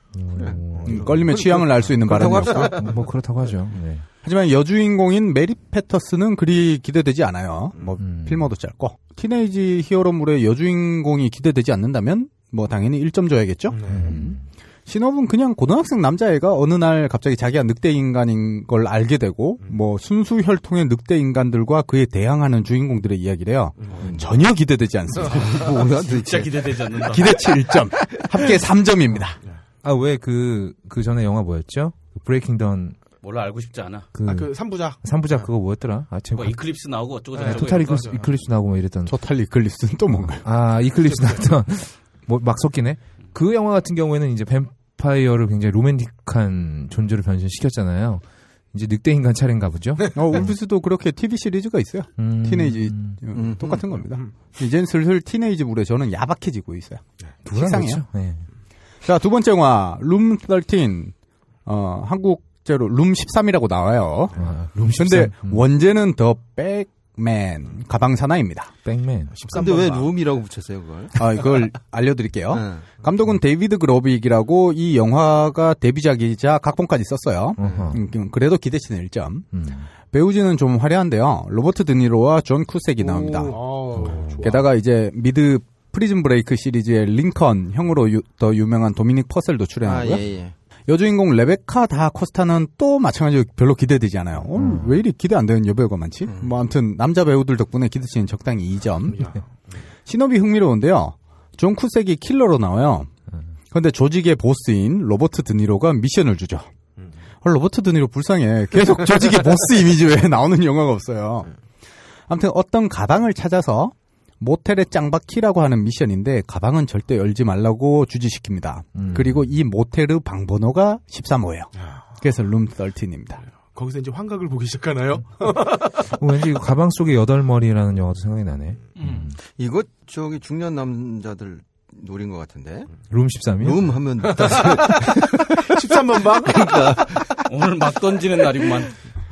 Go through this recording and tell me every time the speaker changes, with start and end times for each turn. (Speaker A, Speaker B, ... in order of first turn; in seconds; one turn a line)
Speaker A: 0.1-1.3
Speaker B: 0.3-0.7
Speaker C: 0.7-2.6
Speaker D: 0.8-2.8
Speaker B: 2.0-2.8
Speaker A: 2.7-4.1
Speaker D: 4.2-25.7
Speaker A: 8.0-8.5
Speaker C: 13.7-14.1
Speaker A: 13.9-14.4
Speaker B: 23.9-24.3
Speaker B: 25.2-26.9
Speaker E: 26.1-27.6
Speaker D: 27.1-29.4
Speaker A: 29.8-33.0
Speaker E: 33.2-34.1
Speaker A: 34.1-36.6
Speaker C: 34.2-35.5
Speaker E: 36.3-38.2
Speaker C: 37.3-38.3
Speaker A: 37.3-39.2
Speaker D: 39.1-40.4
Speaker A: 40.2-50.5
Speaker C: 41.0-41.5
Speaker D: 50.1-58.0
Speaker A: 52.2-53.2
Speaker B: 53.3-53.8
Speaker C: 54.0-54.3
Speaker A: 57.5-58.5
Speaker D: 59.0-68.7
Speaker A: 64.4-65.7
Speaker A: 68.8-69.4
Speaker C: 69.3-70.1
Speaker B: 69.5-71.1
Speaker D: 71.2-83.8
Speaker B: 72.5-72.8
Speaker B: 77.6-78.0
Speaker A: 77.6-78.0
Speaker A: 79.5-79.9
Speaker C: 83.0-84.7
Speaker A: 84.0-84.5
Speaker D: 84.4-90.2
Speaker B: 89.8-90.5
Speaker D: 90.9-99.3
Speaker A: 94.6-95.0
Speaker B: 96.2-96.5
Speaker C: 99.1-99.4
Speaker D: 100.0-103.1
Speaker D: 103.7-106.7
Speaker D: 107.4-111.5
Speaker D: 112.3-123.4
Speaker A: 118.9-119.5
Speaker C: 123.7-126.0
Speaker A: 126.1-129.4
Speaker B: 129.4-132.9
Speaker A: 133.1-134.6
Speaker B: 133.6-135.7
Speaker C: 134.6-135.1
Speaker C: 135.6-136.8
Speaker B: 136.3-137.4
Speaker E: 137.4-139.0